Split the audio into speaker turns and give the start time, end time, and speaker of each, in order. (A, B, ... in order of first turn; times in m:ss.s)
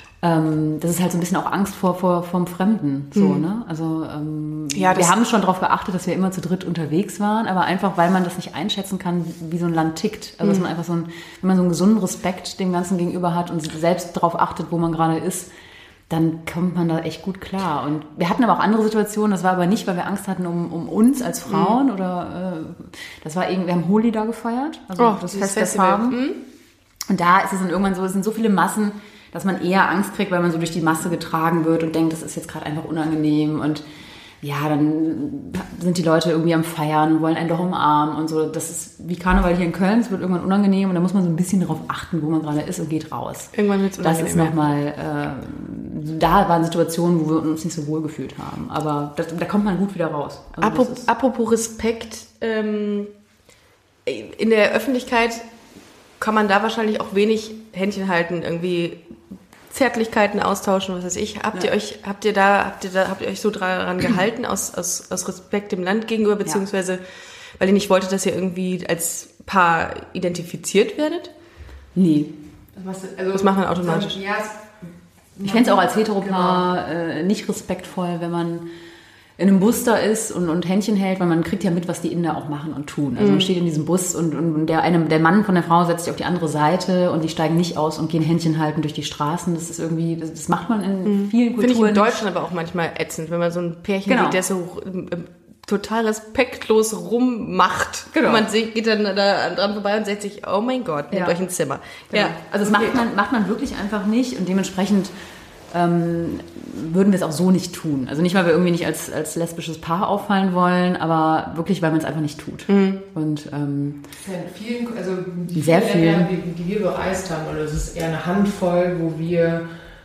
0:00.2-0:15.5 A
0:03.1-0:03.4 B
0:04.7-0:05.1 B
0:16.1-0:26.2 A
0:21.5-0:21.8 B
0:25.0-0:26.4 B
0:27.1-0:33.8 A
0:34.4-0:51.1 A
0:43.5-0:44.6 B
0:50.6-0:53.1 B
0:54.0-0:55.4 B
0:56.2-0:59.0 B
0:59.7-1:07.0 B
1:07.6-1:11.3 B
1:12.0-1:12.3 A
1:12.7-1:14.8 C
1:13.3-1:14.2 B
1:15.3-1:16.7 C
1:15.4-1:18.6 A
1:19.4-1:32.2 A
1:23.2-1:23.5 B
1:31.0-1:43.0 B
1:34.1-1:34.4 A
1:38.1-1:38.4 A
1:41.1-1:41.4 A
1:42.1-1:45.1 A
1:45.7-1:54.0 A
1:52.7-1:53.0 B
1:54.2-1:59.7 C
1:55.5-1:56.3 A